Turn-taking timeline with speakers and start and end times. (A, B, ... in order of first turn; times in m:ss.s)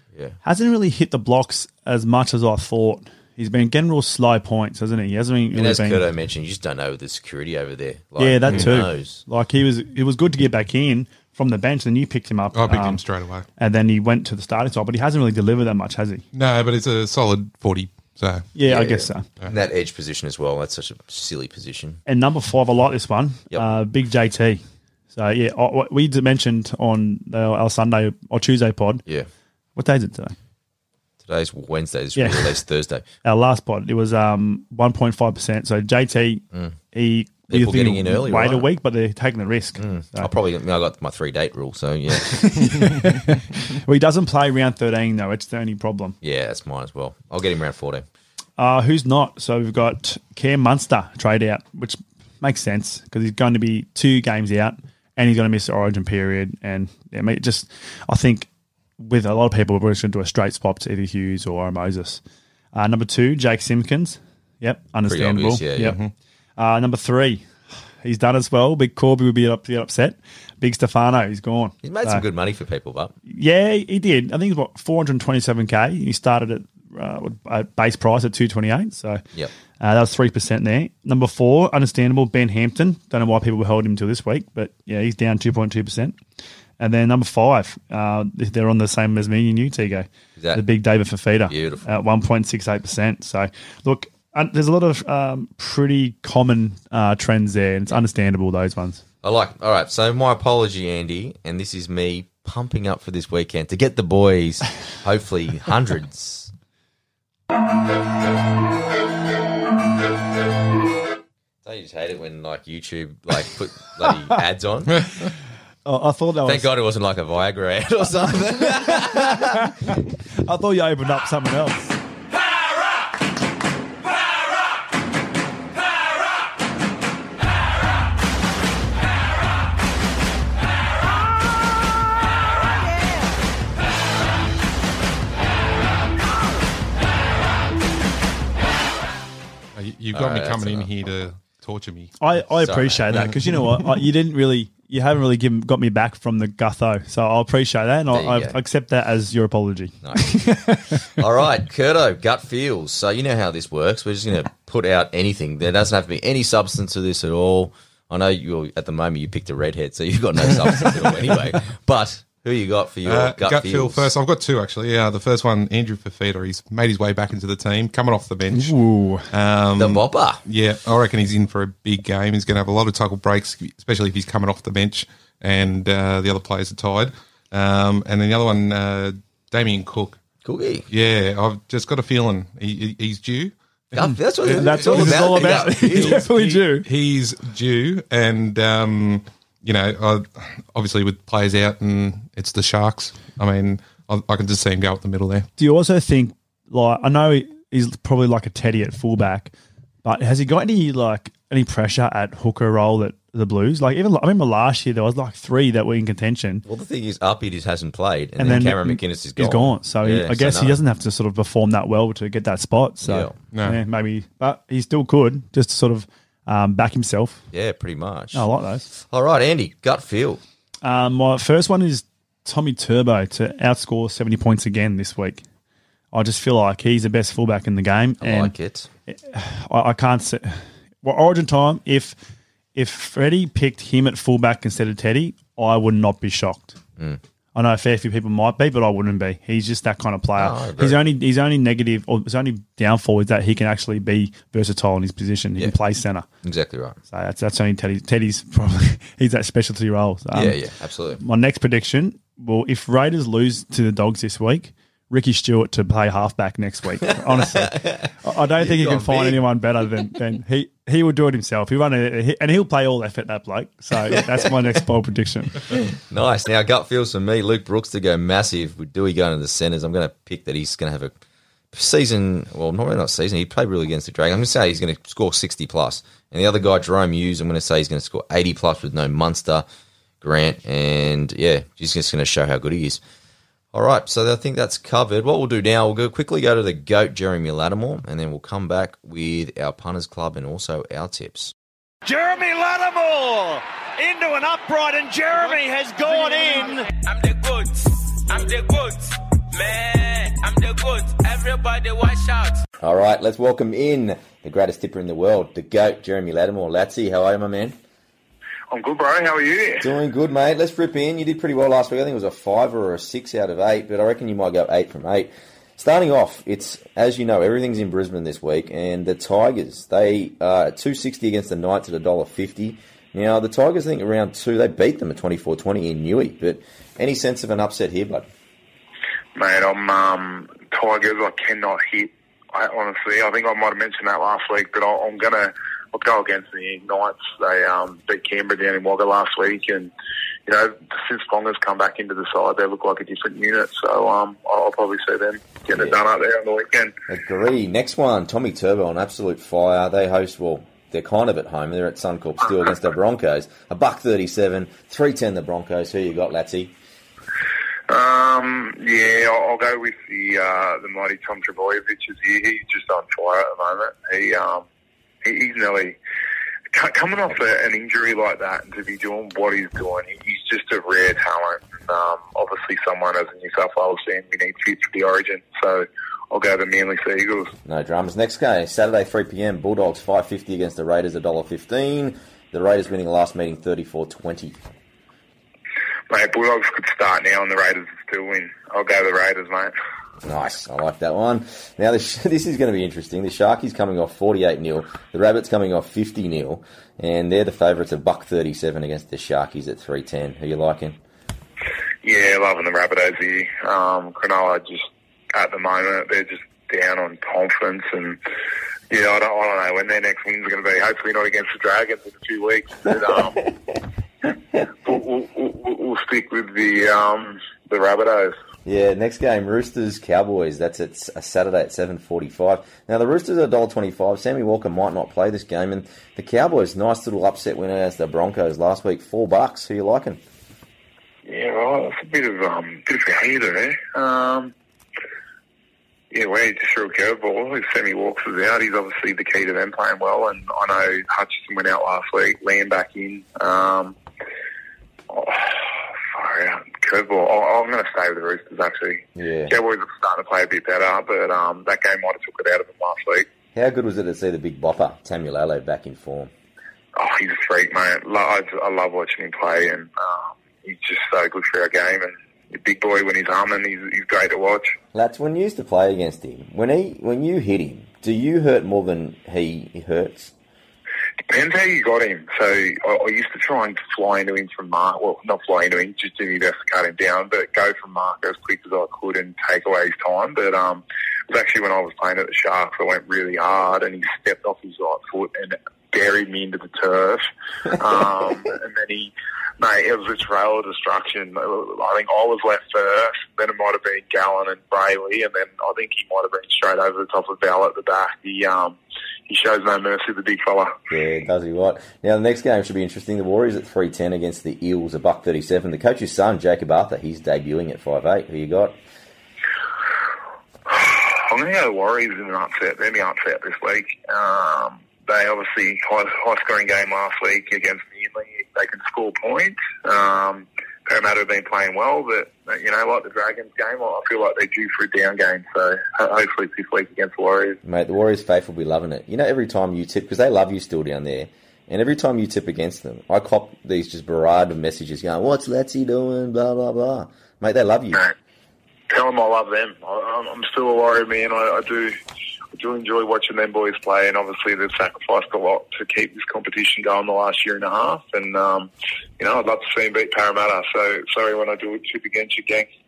0:00.4-0:06.1 A
0:05.5-0:09.2 B
0:08.2-0:13.0 A
0:12.5-0:13.4 C
0:13.6-0:16.2 A
0:16.3-0:18.5 C
0:18.5-0:19.2 A
0:18.6-0:22.0 B
0:22.0-0:24.6 A
0:25.1-0:29.0 A
0:29.8-0:30.3 A
0:31.2-0:33.0 B
0:32.1-0:32.6 A
0:33.2-0:40.3 A
0:37.5-0:38.7 B
0:39.8-0:42.7 B
0:42.2-0:46.2 A
0:46.2-0:48.0 B
0:48.6-1:02.2 A
1:02.7-1:06.0 A
1:05.0-1:06.0 B
1:05.8-1:06.1 C
1:06.6-1:07.5 A
1:08.0-1:12.2 A
1:11.8-1:13.1 B
1:13.2-1:19.2 A
1:19.8-1:26.2 A
1:26.8-1:39.0 A
1:30.4-1:30.6 B
1:31.5-1:31.8 B
1:39.2-1:46.5 B
1:51.6-1:55.1 B
1:55.8-1:56.7 A
1:56.4-1:59.7 B
1:58.9-2:02.0 A
2:19.8-2:22.2 C
2:20.1-2:20.9 B
2:22.2-2:31.2 A
2:22.6-2:23.3 B
2:28.1-2:28.6 B
2:30.0-2:30.4 B
2:31.0-2:44.1 B
2:43.0-3:00.2 C
2:48.5-2:49.3 A
2:49.8-2:50.4 B
3:00.4-3:00.9 B
3:00.9-3:03.5 C
3:03.9-3:06.2 B
3:04.0-3:06.9 A
3:04.4-3:15.5 C
3:15.6-3:19.5 A
3:20.0-3:26.6 A
3:26.6-3:30.8 B
3:28.4-3:37.4 A
3:33.0-3:33.3 B
3:33.5-3:33.8 C
3:37.5-3:40.4 B
3:38.3-3:38.9 A
3:40.8-3:45.4 A
3:46.1-3:48.5 A
3:48.2-3:48.9 B
3:49.1-3:52.2 A
3:52.7-3:56.8 A
3:57.5-4:06.2 A
4:00.4-4:01.0 B
4:06.4-4:07.0 B
4:07.1-4:10.6 A
4:10.3-4:11.2 B
4:11.2-4:25.7 A
4:17.2-4:19.4 B
4:24.1-4:24.5 B
4:25.7-4:31.1 B
4:31.7-4:39.6 B
4:40.2-4:43.0 B
4:43.7-4:51.5 B
4:52.0-4:56.9 D
4:57.0-5:02.6 E
5:02.8-5:07.8 B
5:08.7-5:09.9 F
5:09.8-5:28.3 B
5:29.3-5:39.9 F
5:40.4-5:46.9 F
5:45.7-5:46.0 B
5:47.1-5:56.7 B
5:57.9-6:04.6 F
6:05.2-6:06.0 F
6:06.7-6:17.5 F
6:17.6-6:24.6 B
6:26.1-6:29.7 F
6:30.2-6:41.0 B
6:42.0-6:48.2 F
6:48.9-6:53.4 F
6:53.1-6:53.8 B
6:54.8-6:58.3 F
6:58.6-7:10.2 B
7:11.2-7:14.5 F
7:16.1-7:23.9 F
7:25.1-7:33.3 F
7:29.2-7:29.5 B
7:33.5-7:36.3 B
7:37.0-7:44.8 F
7:44.9-7:50.3 B
7:51.3-8:18.8 F
8:19.3-8:20.7 F
8:20.9-8:28.8 B
8:30.7-8:47.6 F
8:47.6-8:58.0 B
8:58.9-9:01.9 F
9:02.5-9:12.7 F